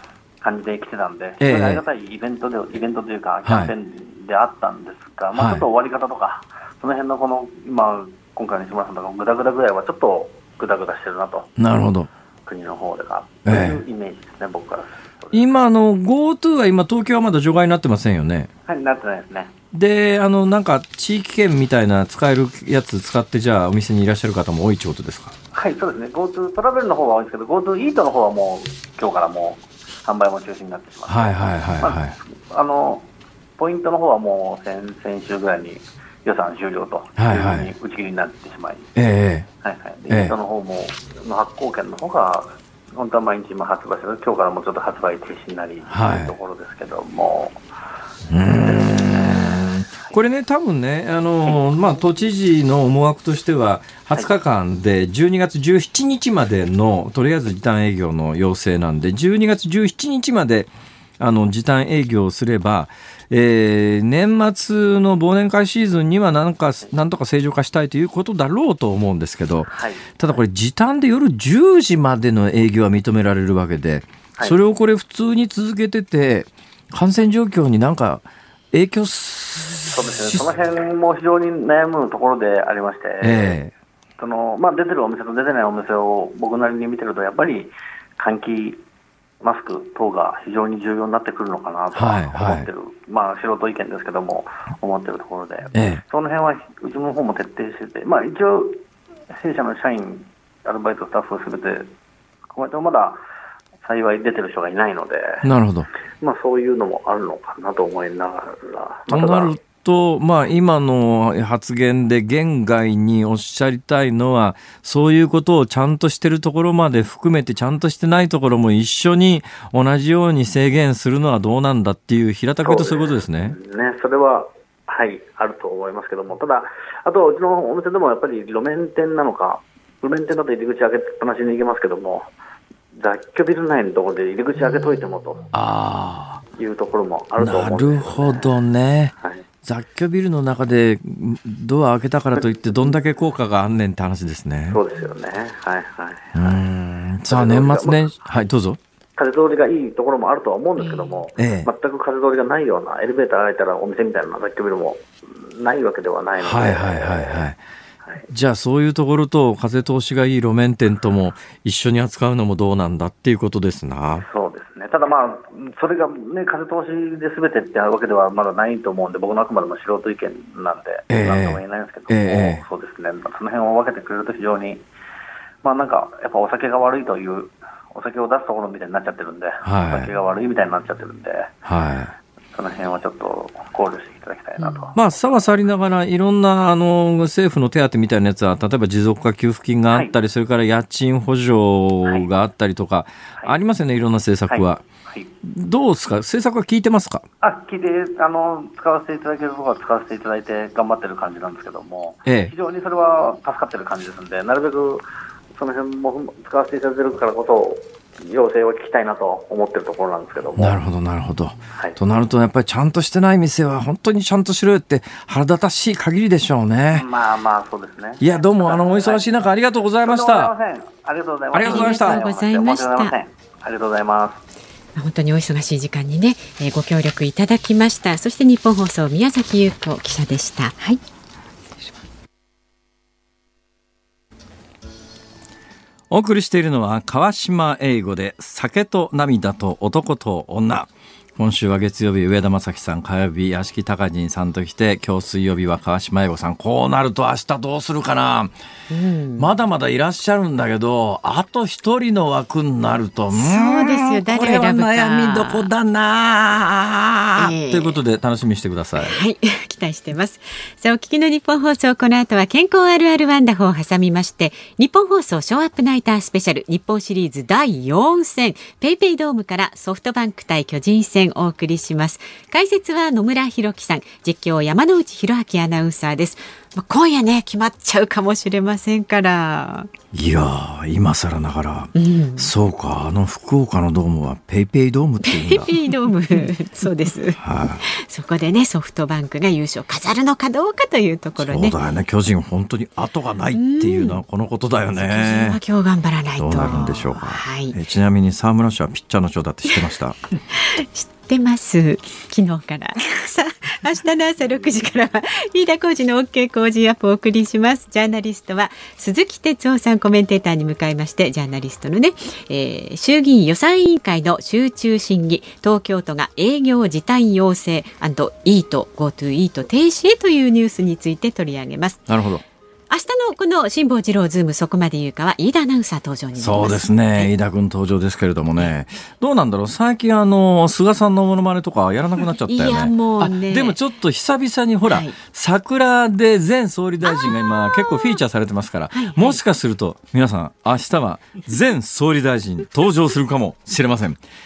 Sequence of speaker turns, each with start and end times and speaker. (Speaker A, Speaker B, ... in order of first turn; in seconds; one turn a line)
Speaker A: 0.4-11.5
Speaker B: 1.4-1.8
Speaker B: 3.5-3.7
Speaker B: 5.3-5.7
Speaker B: 11.6-12.1
Speaker A: 12.4-15.5
Speaker B: 13.4-13.8
Speaker B: 15.3-18.5
Speaker A: 18.7-19.5
Speaker B: 19.7-25.4
Speaker A: 25.5-33.1
Speaker B: 31.1-32.2
Speaker A: 33.6-38.9
Speaker B: 37.2-37.7
Speaker B: 39.0-39.5
Speaker A: 39.6-47.6
Speaker B: 40.1-40.4
Speaker B: 45.9-46.4
Speaker B: 48.3-80.5
Speaker A: 48.5-50.1
Speaker A: 69.7-70.2
Speaker A: 79.8-83.6
Speaker B: 83.2-83.7
Speaker A: 84.2-88.8
Speaker A: 89.4-101.9
Speaker B: 92.0-92.7
Speaker B: 95.7-96.0
Speaker A: 102.5-103.2
Speaker A: 103.8-105.5
Speaker B: 105.4-105.9
Speaker A: 106.2-109.5
Speaker B: 109.1-123.6
Speaker A: 122.6-132.3
Speaker A: 132.9-135.5
Speaker B: 135.5-136.4
Speaker A: 136.5-138.5
Speaker B: 137.4-144.8
Speaker A: 144.7-146.6
Speaker B: 146.3-148.8
Speaker A: 147.3-148.2
Speaker A: 149.2-157.5
Speaker B: 151.4-151.7
Speaker B: 156.4-157.6
Speaker B: 158.3-164.3
Speaker A: 164.2-174.8
Speaker B: 171.1-172.6
Speaker A: 175.6-181.5
Speaker B: 179.6-180.1
Speaker B: 181.7-182.2
Speaker A: 182.5-185.0
Speaker C: 184.6-184.9
Speaker B: 184.9-194.8
Speaker A: 194.5-195.3
Speaker B: 195.4-197.3
Speaker A: 197.4-210.8
Speaker B: 202.3-202.5
Speaker B: 210.6-217.1
Speaker A: 211.7-212.0
Speaker A: 216.9-219.3
Speaker B: 218.2-220.5
Speaker A: 220.0-224.4
Speaker B: 221.5-222.2
Speaker C: 221.6-223.2
Speaker C: 224.9-230.8
Speaker B: 236.1-248.5
Speaker C: 248.9-249.5
Speaker B: 249.4-259.2
Speaker C: 253.3-255.7
Speaker C: 257.4-258.0
Speaker C: 259.0-279.9
Speaker B: 280.1-285.8
Speaker C: 281.9-282.5
Speaker C: 285.2-291.8
Speaker B: 287.4-287.8
Speaker B: 291.4-295.6
Speaker C: 293.5-294.2
Speaker C: 294.9-297.8
Speaker B: 296.4-300.2
Speaker C: 300.5-322.0
Speaker B: 322.1-322.4
Speaker C: 322.9-327.3
Speaker B: 326.4-344.2
Speaker C: 332.5-333.8
Speaker C: 334.9-335.2
Speaker C: 337.1-337.5
Speaker C: 338.9-339.4